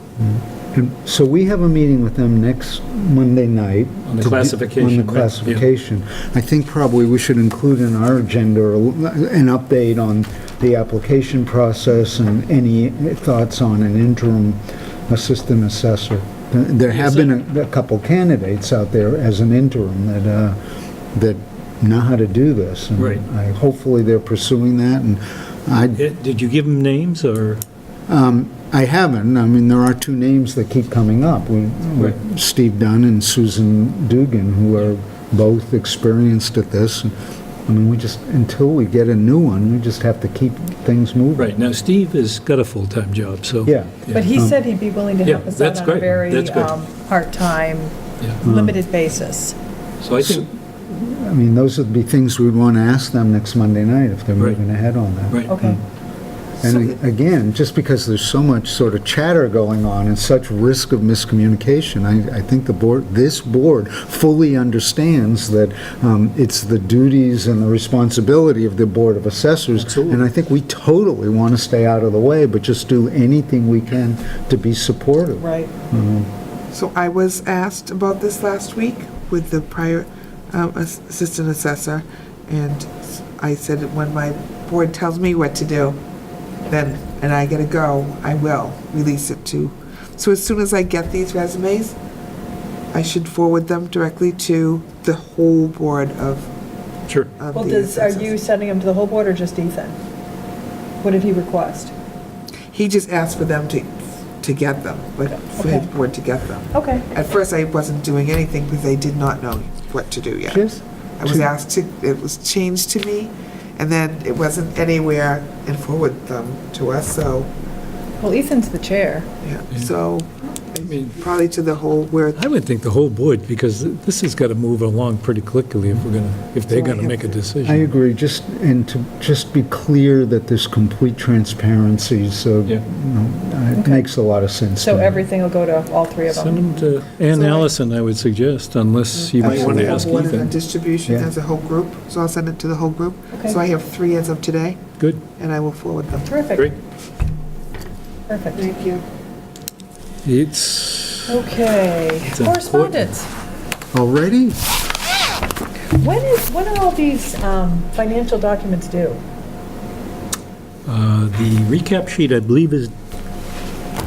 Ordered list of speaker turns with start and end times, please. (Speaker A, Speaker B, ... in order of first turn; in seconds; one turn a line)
Speaker A: 0.2-20.6
Speaker B: 4.1-5.7
Speaker B: 16.9-17.4
Speaker A: 21.1-26.0
Speaker B: 23.0-23.2
Speaker B: 25.9-27.6
Speaker A: 28.1-37.1
Speaker A: 37.7-41.5
Speaker B: 41.4-44.3
Speaker A: 43.6-44.6
Speaker C: 44.1-49.6
Speaker B: 45.2-46.7
Speaker A: 48.4-48.8
Speaker B: 50.0-50.5
Speaker A: 50.2-55.8
Speaker C: 55.5-55.8
Speaker A: 56.6-76.3
Speaker D: 56.6-57.0
Speaker B: 69.8-70.3
Speaker C: 75.4-75.7
Speaker D: 76.7-86.0
Speaker D: 86.7-92.0
Speaker D: 92.9-96.5
Speaker B: 97.1-97.3
Speaker D: 97.4-98.4
Speaker C: 97.5-100.0
Speaker C: 101.0-101.9
Speaker D: 102.7-117.5
Speaker C: 105.3-105.9
Speaker C: 106.7-107.1
Speaker A: 110.5-111.5
Speaker C: 118.2-119.3
Speaker D: 119.4-122.5
Speaker B: 120.8-121.2
Speaker B: 122.4-127.9
Speaker A: 127.6-135.3
Speaker C: 133.8-134.0
Speaker C: 134.8-136.9
Speaker B: 136.3-140.5
Speaker D: 137.3-137.7
Speaker D: 139.2-144.8
Speaker A: 139.4-140.5
Speaker D: 145.4-146.4
Speaker C: 146.2-146.7
Speaker C: 148.3-148.7
Speaker D: 148.5-149.0
Speaker B: 150.2-151.4
Speaker C: 151.3-153.3
Speaker B: 152.2-153.2
Speaker A: 153.9-154.7
Speaker C: 155.9-159.2
Speaker B: 160.9-162.9